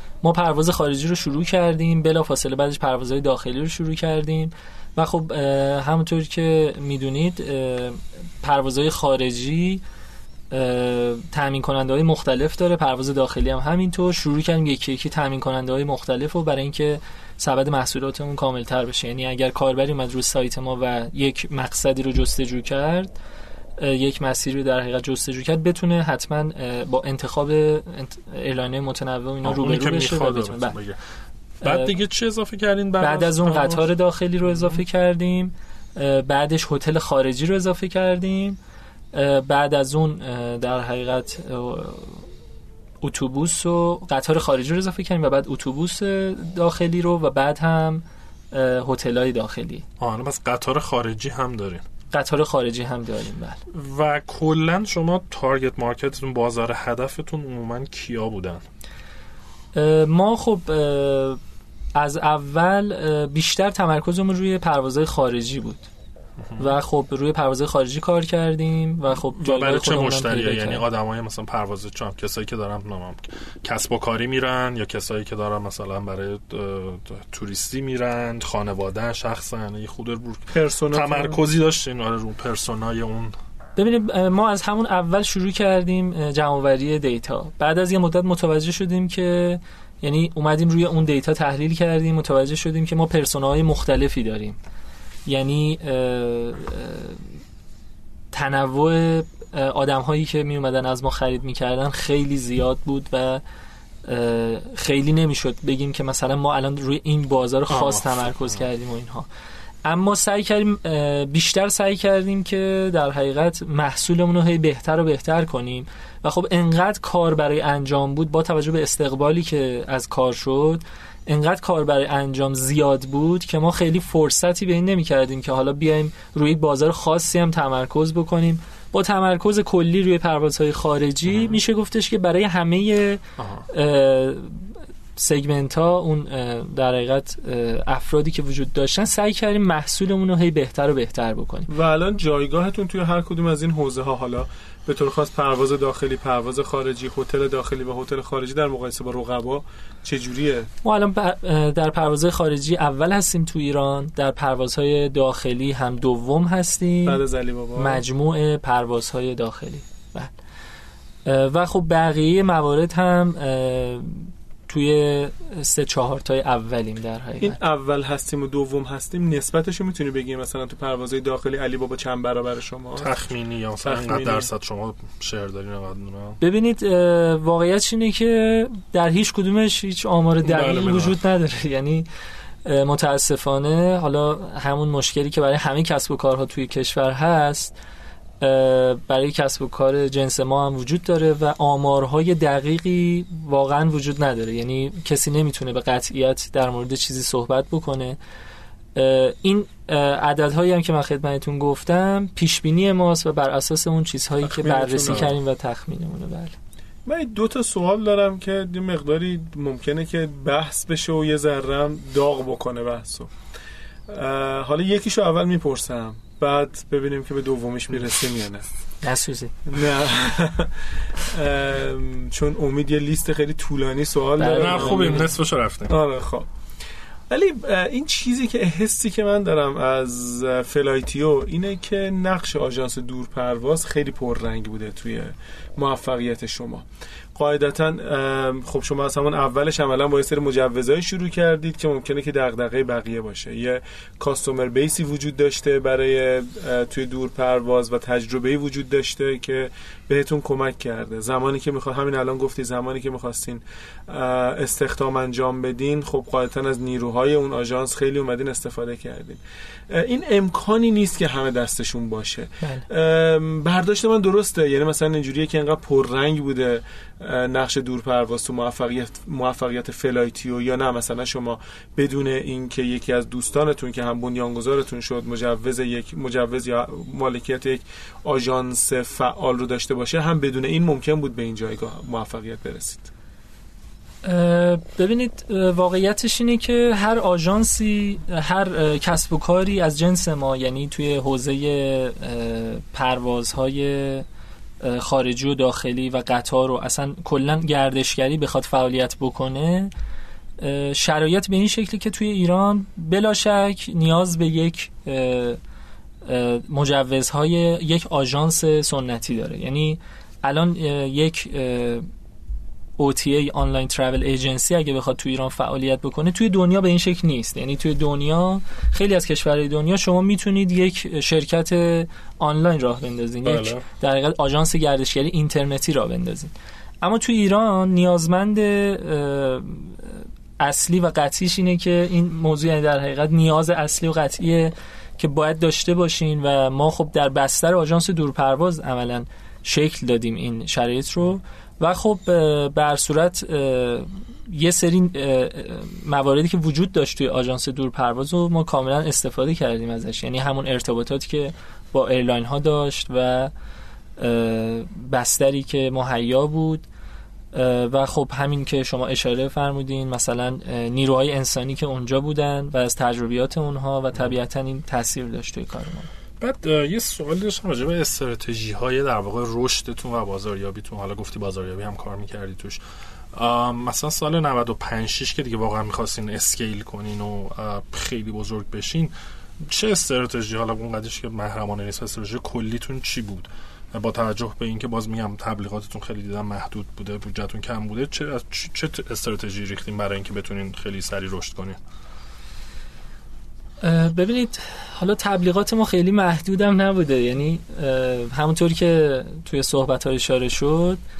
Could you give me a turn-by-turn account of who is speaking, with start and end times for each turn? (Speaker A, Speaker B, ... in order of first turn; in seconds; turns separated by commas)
Speaker A: 0.2-9.8, Speaker A: 10.5-23.1, Speaker A: 23.8-30.8, Speaker B: 29.4-31.0, Speaker A: 31.6-31.9, Speaker B: 31.6-33.9, Speaker A: 33.0-38.6, Speaker B: 34.4-34.8, Speaker A: 39.1-42.2, Speaker A: 43.0-49.8, Speaker B: 50.0-51.8, Speaker A: 52.1-53.6, Speaker B: 53.7-58.6, Speaker A: 59.7-61.4, Speaker A: 61.9-65.8, Speaker B: 66.4-66.7, Speaker A: 66.6-70.8, Speaker B: 69.4-83.3, Speaker C: 80.5-81.4, Speaker A: 83.8-94.6, Speaker A: 95.2-97.3, Speaker A: 98.3-103.4, Speaker A: 104.0-109.3, Speaker B: 107.7-108.7, Speaker A: 109.8-141.7, Speaker B: 131.2-131.6, Speaker B: 133.4-133.7, Speaker C: 141.7-150.7, Speaker A: 150.8-157.2, Speaker C: 157.0-158.0, Speaker A: 157.8-160.3, Speaker A: 161.2-167.6, Speaker C: 167.4-173.1, Speaker B: 173.0-176.4, Speaker C: 173.8-174.5, Speaker A: 176.4-182.1, Speaker B: 180.4-181.2, Speaker A: 182.6-187.7, Speaker A: 188.4-198.2, Speaker A: 198.9-206.5, Speaker C: 204.5-205.3, Speaker B: 205.0-205.3, Speaker C: 207.1-213.3, Speaker C: 214.1-218.7, Speaker A: 219.0-219.6, Speaker C: 219.7-225.3, Speaker A: 224.4-225.3, Speaker B: 224.5-226.0, Speaker C: 225.9-226.5, Speaker C: 227.3-259.4, Speaker C: 259.9-283.1, Speaker A: 284.2-294.2, Speaker A: 294.8-299.9, Speaker A: 300.6-305.6, Speaker A: 306.2-312.1, Speaker A: 313.0-353.5, Speaker B: 323.4-323.8, Speaker A: 354.2-356.8, Speaker A: 357.5-366.1, Speaker B: 366.4-372.8, Speaker B: 373.3-391.8, Speaker A: 393.8-401.0